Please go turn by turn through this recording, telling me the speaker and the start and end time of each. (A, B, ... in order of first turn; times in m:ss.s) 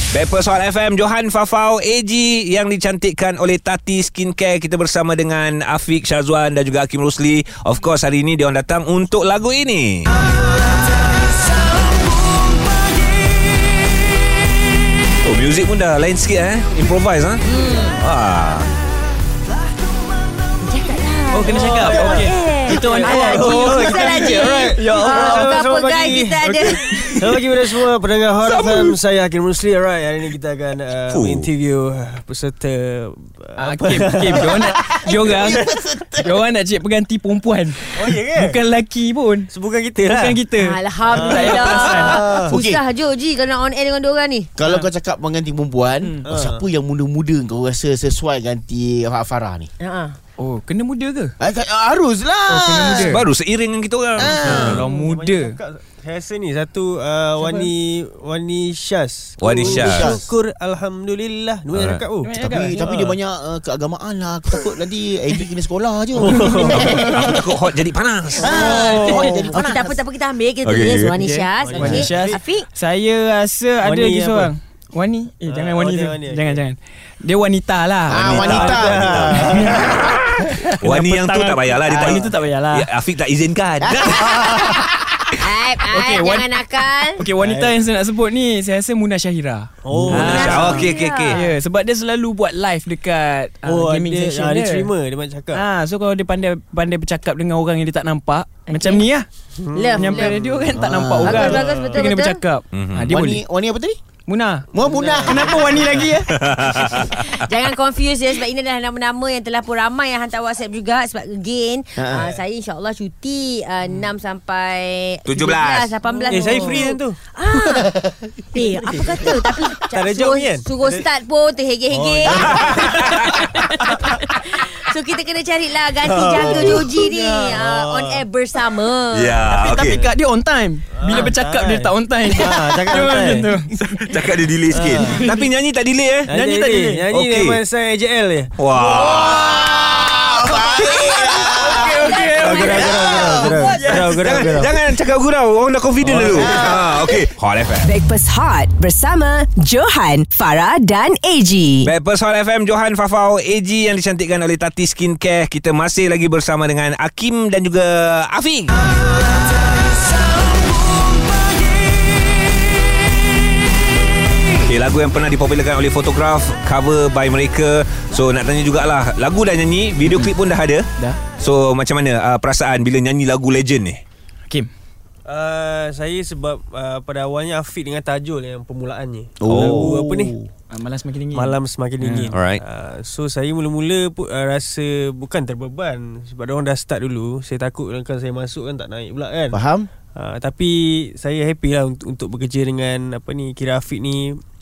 0:00.1-0:10.1 A
0:15.2-0:18.7 A
0:17.4-0:18.0 B
0:20.6-0:27.1 B
0:21.3-0:26.7 C
0:22.9-0:34.8 D
0:28.4-0:28.9 A
0:31.1-0:31.5 A
0:33.6-0:39.5 C
0:34.3-0:36.4 E
0:38.0-0:38.6 D
0:39.5-0:40.4 D
0:40.1-0:42.2 C
0:40.6-0:44.5 B
0:41.1-0:42.8 E
0:44.6-0:49.7 E
0:46.2-0:46.7 D
0:49.8-0:50.2 B
0:50.4-0:51.3 C
0:51.4-0:53.2 E
0:52.5-0:53.2 C
0:53.1-0:54.8 A
0:54.2-0:54.8 E
0:54.3-0:55.6 C
0:54.4-1:03.2 D
0:57.4-0:57.7 C
0:59.4-1:00.1 A
0:59.6-1:00.3 E
1:01.7-1:02.0 A
1:02.2-1:02.9 C
1:02.4-1:07.4 E
1:06.2-1:06.8 D
1:06.7-1:08.6 A
1:08.4-1:10.0 E
1:08.4-1:12.7 B
1:08.6-1:09.5 C
1:10.6-1:11.2 A
1:11.1-1:22.9 C
1:11.6-1:12.4 D
1:13.8-1:14.5 D
1:15.5-1:16.6 D
1:18.1-1:24.8 A
1:18.1-1:19.9 E
1:18.3-1:19.7 D
1:21.9-1:22.3 E
1:23.8-1:24.9 E
1:25.4-1:27.2 B
1:25.9-1:26.5 C
1:27.1-1:34.9 C
1:27.4-1:27.7 D
1:29.8-1:30.5 D
1:29.9-1:30.3 E
1:30.1-1:31.5 B
1:30.3-1:31.4 A
1:33.6-1:35.6 D
1:35.5-1:39.2 C
1:38.7-1:39.0 B
1:39.6-1:40.0 D
1:39.7-1:40.4 B
1:39.9-1:43.4 C
1:40.7-1:41.6 E
1:41.2-1:42.4 B
1:41.5-1:41.9 D
1:42.7-1:43.1 A
1:43.1-1:44.0 E
1:44.3-1:44.7 C
1:44.7-1:45.9 E
1:44.8-1:45.9 D
1:45.2-1:46.3 C
1:46.3-1:47.2 A
1:47.1-2:09.5 B
1:52.0-1:52.4 E
1:55.2-1:55.9 A
1:56.3-1:57.2 D
1:58.5-2:01.0 D
2:01.9-2:02.9 D
2:02.4-2:03.5 A
2:06.0-2:08.2 D
2:09.1-2:10.0 A
2:09.5-2:14.2 C
2:10.9-2:13.5 D
2:14.1-2:16.3 A
2:14.7-2:15.3 D
2:14.9-2:15.5 C
2:16.3-2:18.5 D
2:16.3-2:17.0 C
2:17.1-2:17.6 A
2:18.6-2:20.2 A
2:18.8-2:23.6 E
2:21.4-2:24.5 C
2:21.9-2:23.8 B
2:22.3-2:24.7 D
2:24.1-2:27.9 A
2:26.0-2:26.5 D
2:26.3-2:27.0 E
2:27.8-2:31.9 F
2:31.8-2:38.8 A
2:44.6-2:50.9 A
2:51.4-2:54.0 A
2:55.2-3:00.3 D
2:59.4-3:00.5 E
2:59.4-2:59.9 A
3:00.7-3:02.3 C
3:01.3-3:09.6 D
3:02.3-3:02.6 A
3:09.5-3:09.9 E
3:10.1-3:14.4 D